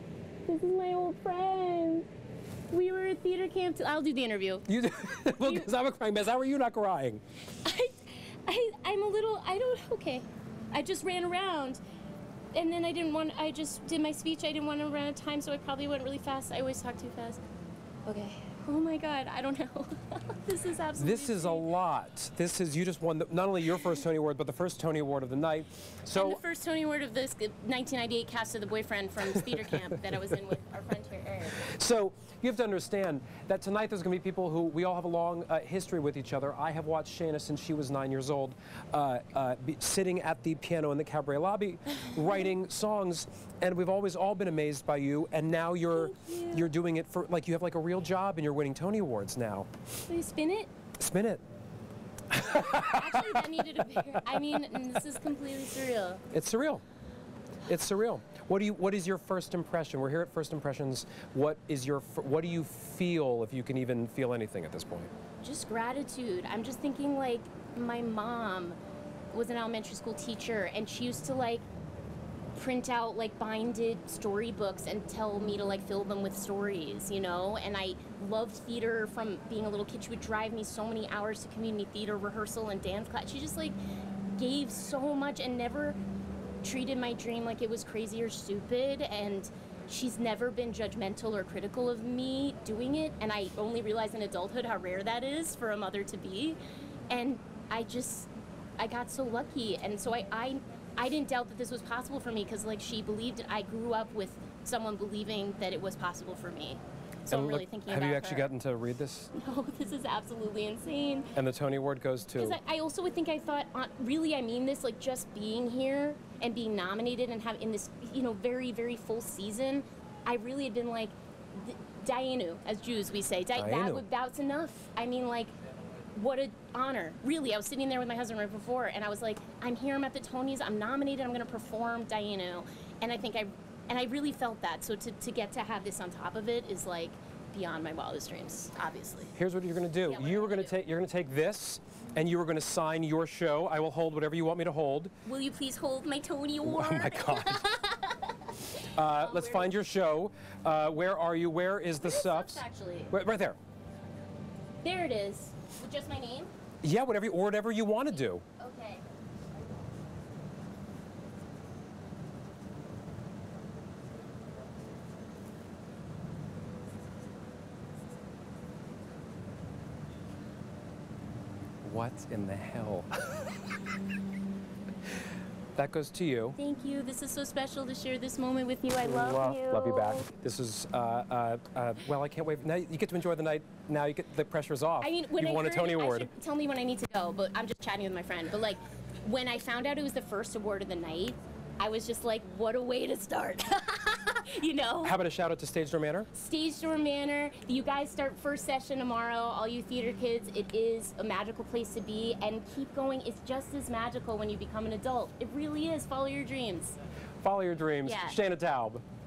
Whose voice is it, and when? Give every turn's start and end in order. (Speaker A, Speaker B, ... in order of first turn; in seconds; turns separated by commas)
Speaker A: 0.5-2.1, Speaker A: 2.7-4.7, Speaker B: 4.7-7.2, Speaker A: 5.3-5.7, Speaker A: 7.6-11.8, Speaker A: 12.5-17.4, Speaker A: 18.1-21.7, Speaker B: 21.0-26.4, Speaker A: 26.1-31.6, Speaker B: 29.3-30.1, Speaker B: 31.6-49.7, Speaker A: 45.9-46.7, Speaker A: 50.1-50.7, Speaker B: 51.0-51.4, Speaker B: 52.3-54.7, Speaker A: 52.4-56.2, Speaker B: 56.3-56.8, Speaker B: 57.6-65.1, Speaker A: 65.4-68.8, Speaker A: 69.3-71.6, Speaker A: 72.5-83.8, Speaker A: 84.3-86.0, Speaker A: 86.6-96.6, Speaker A: 97.1-108.5, Speaker B: 107.3-109.3, Speaker A: 109.3-111.3, Speaker B: 111.3-112.6, Speaker A: 112.4-125.5, Speaker B: 123.5-124.0, Speaker A: 126.1-139.3, Speaker B: 139.3-145.1, Speaker A: 140.0-140.8, Speaker A: 145.2-149.8, Speaker B: 146.6-147.7, Speaker B: 148.9-153.6, Speaker A: 152.0-153.1, Speaker A: 154.8-156.5, Speaker B: 156.8-158.4, Speaker A: 158.6-159.0, Speaker B: 171.8-173.5, Speaker B: 175.8-176.6, Speaker A: 176.6-180.3, Speaker B: 179.0-186.3, Speaker A: 185.0-195.2, Speaker B: 195.0-196.3, Speaker A: 196.3-207.0, Speaker B: 207.4-209.0, Speaker A: 208.0-208.4